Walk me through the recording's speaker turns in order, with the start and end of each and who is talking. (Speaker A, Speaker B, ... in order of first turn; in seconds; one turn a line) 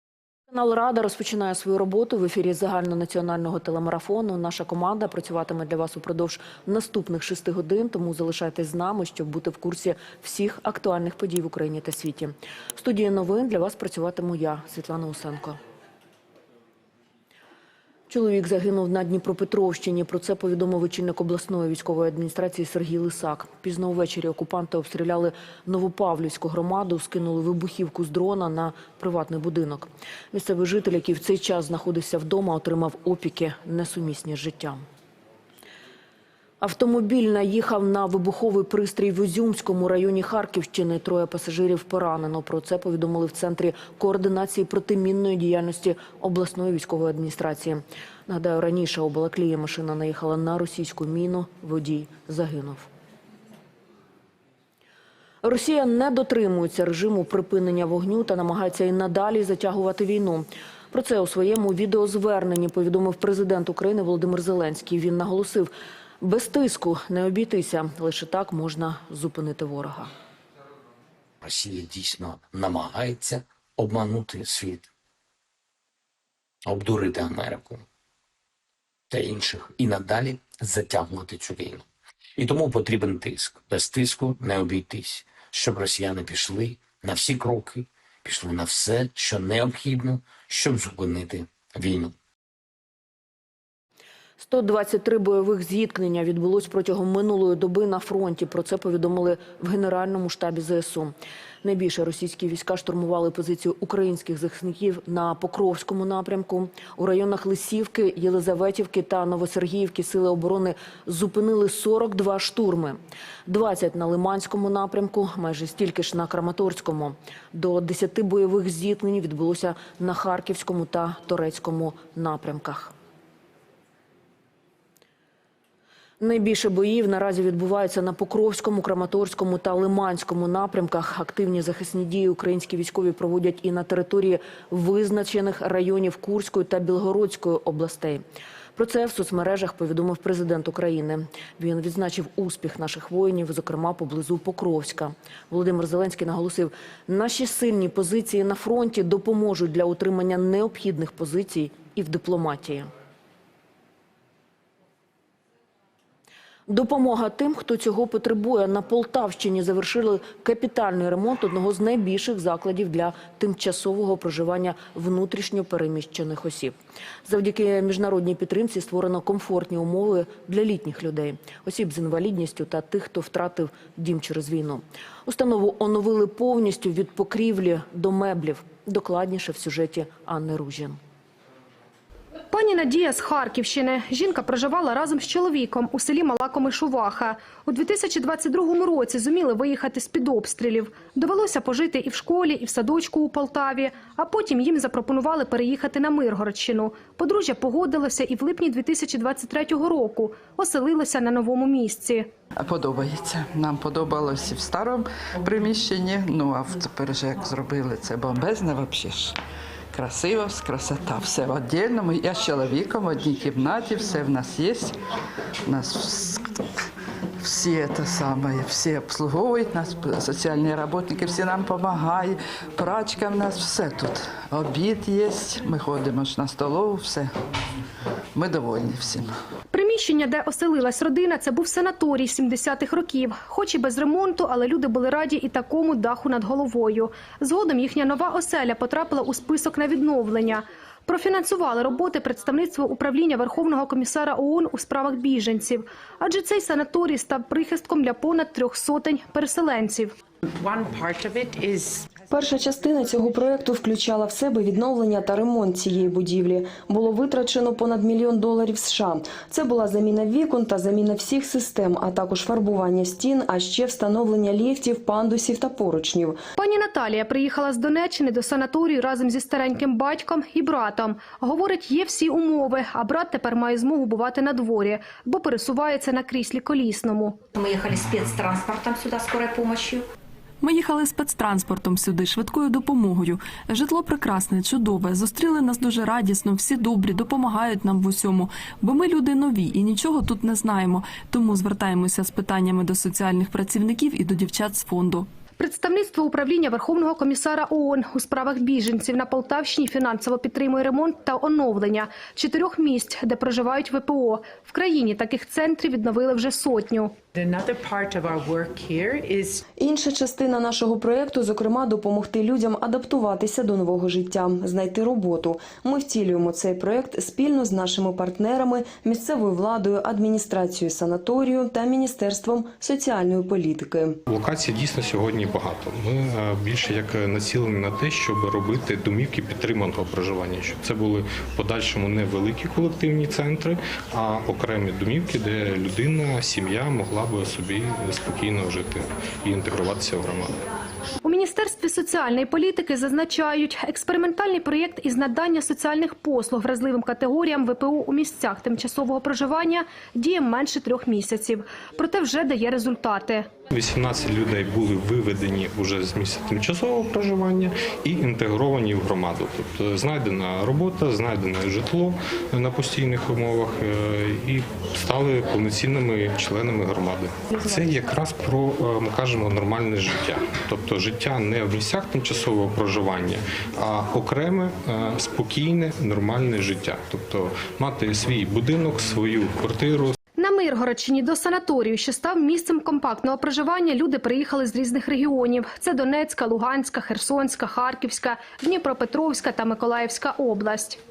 Speaker A: 0.5-15.6
Speaker A: 18.1-34.8
Speaker A: 36.6-52.9
Speaker A: 55.4-65.7
Speaker A: 66.2-70.1
Speaker B: 71.4-74.8
Speaker B: 76.7-77.8
Speaker B: 79.1-81.8
Speaker B: 82.4-92.1
Speaker A: 94.4-122.9
Speaker A: 126.2-138.2
Speaker A: 138.8-152.9
Speaker A: 156.7-166.7
Speaker A: 167.2-181.0
Speaker C: 182.5-202.3
Speaker D: 202.6-209.4
Speaker D: 209.9-214.9
Speaker D: 215.7-216.6
Speaker D: 217.4-227.3
Speaker D: 228.3-229.3
Speaker C: 229.7-250.2
Speaker E: 250.6-252.1
Speaker F: 252.3-266.4
Speaker C: 266.6-277.4
Speaker G: 280.6-295.2
Speaker C: 295.6-307.1
Speaker E: 307.3-309.6
Speaker F: 309.8-324.2
Speaker H: 324.3-340.5
Speaker C: 341.2-353.5
Speaker H: 353.7-380.1
Speaker C: 380.4-391.0